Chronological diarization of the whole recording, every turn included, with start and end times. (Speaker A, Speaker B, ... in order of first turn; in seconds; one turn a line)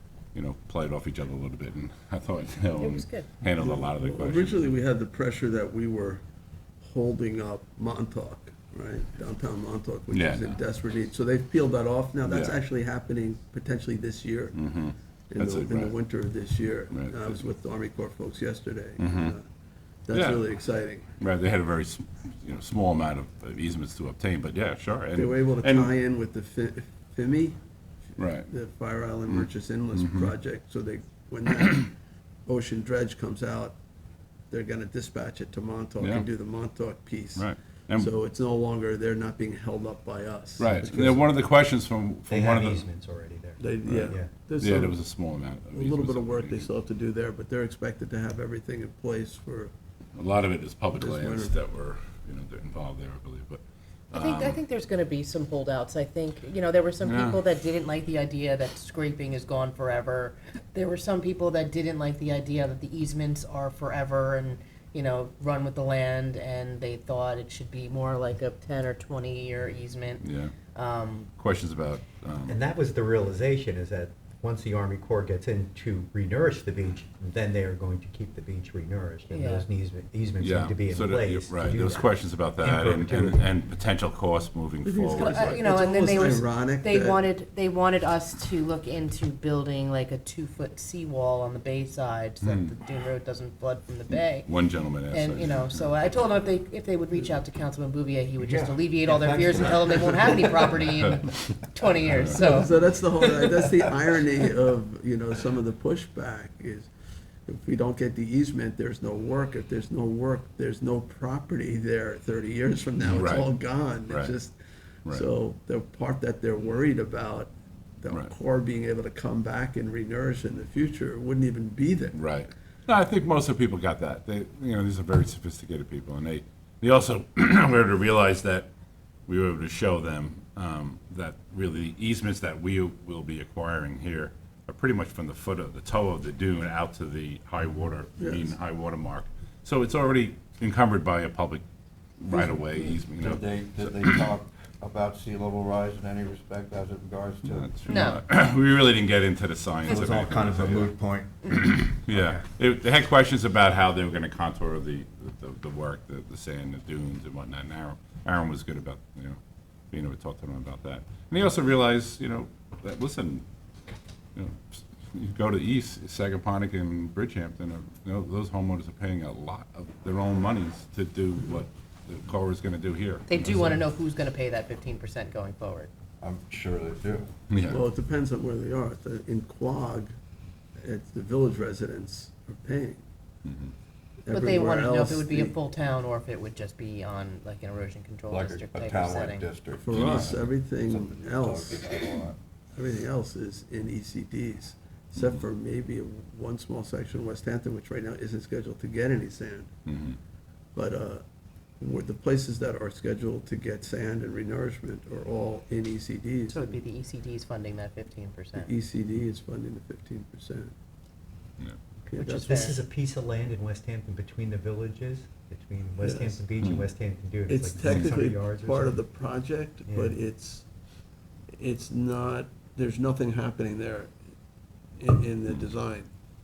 Speaker A: 0.3-4.6
Speaker B: 2.8-3.3
Speaker C: 3.6-6.2
Speaker C: 6.8-14.6
Speaker A: 10.1-10.6
Speaker A: 12.2-12.6
Speaker A: 14.5-15.9
Speaker C: 15.3-19.5
Speaker A: 16.9-17.4
Speaker A: 19.0-19.4
Speaker C: 20.1-21.2
Speaker A: 20.1-20.4
Speaker A: 21.2-25.9
Speaker C: 25.1-27.6
Speaker A: 28.2-28.5
Speaker C: 28.3-31.9
Speaker A: 29.3-30.3
Speaker C: 32.5-33.8
Speaker C: 34.5-41.3
Speaker A: 36.0-36.3
Speaker A: 37.4-38.1
Speaker A: 40.6-42.8
Speaker D: 42.3-44.3
Speaker C: 43.6-45.0
Speaker A: 43.9-46.7
Speaker C: 45.7-49.7
Speaker A: 50.1-54.6
Speaker C: 50.9-51.6
Speaker B: 54.1-71.3
Speaker A: 57.0-57.4
Speaker A: 70.2-70.5
Speaker A: 71.4-72.6
Speaker D: 72.5-83.5
Speaker B: 79.3-79.7
Speaker A: 80.4-85.6
Speaker C: 84.8-87.2
Speaker B: 85.1-94.5
Speaker A: 92.4-92.7
Speaker A: 94.1-95.9
Speaker B: 95.1-103.7
Speaker D: 98.4-100.9
Speaker C: 102.2-106.9
Speaker C: 107.5-122.2
Speaker A: 113.1-113.5
Speaker A: 114.1-114.3
Speaker A: 122.1-128.7
Speaker A: 129.3-141.6
Speaker C: 138.2-138.5
Speaker A: 142.2-144.2
Speaker E: 143.2-148.0
Speaker A: 147.4-150.9
Speaker B: 147.9-148.2
Speaker E: 149.9-152.4
Speaker A: 152.0-159.4
Speaker A: 159.9-163.4
Speaker A: 164.3-173.3
Speaker B: 173.3-175.9
Speaker E: 176.2-177.3
Speaker A: 177.5-177.8
Speaker C: 177.6-180.2
Speaker C: 180.8-183.0
Speaker A: 183.4-183.7
Speaker C: 184.2-185.6
Speaker B: 184.3-189.5
Speaker E: 188.3-192.4
Speaker C: 189.8-192.0
Speaker A: 189.9-190.4
Speaker C: 192.8-199.7
Speaker A: 199.9-200.2
Speaker C: 200.8-201.2
Speaker C: 201.8-206.6
Speaker B: 206.5-208.7
Speaker C: 208.6-210.7
Speaker D: 212.1-219.0
Speaker C: 212.1-212.5
Speaker B: 212.2-212.8
Speaker C: 216.0-216.4
Speaker A: 216.6-216.9
Speaker C: 217.5-220.7
Speaker D: 219.9-220.2
Speaker C: 221.6-224.1
Speaker C: 225.0-226.1
Speaker A: 225.5-225.7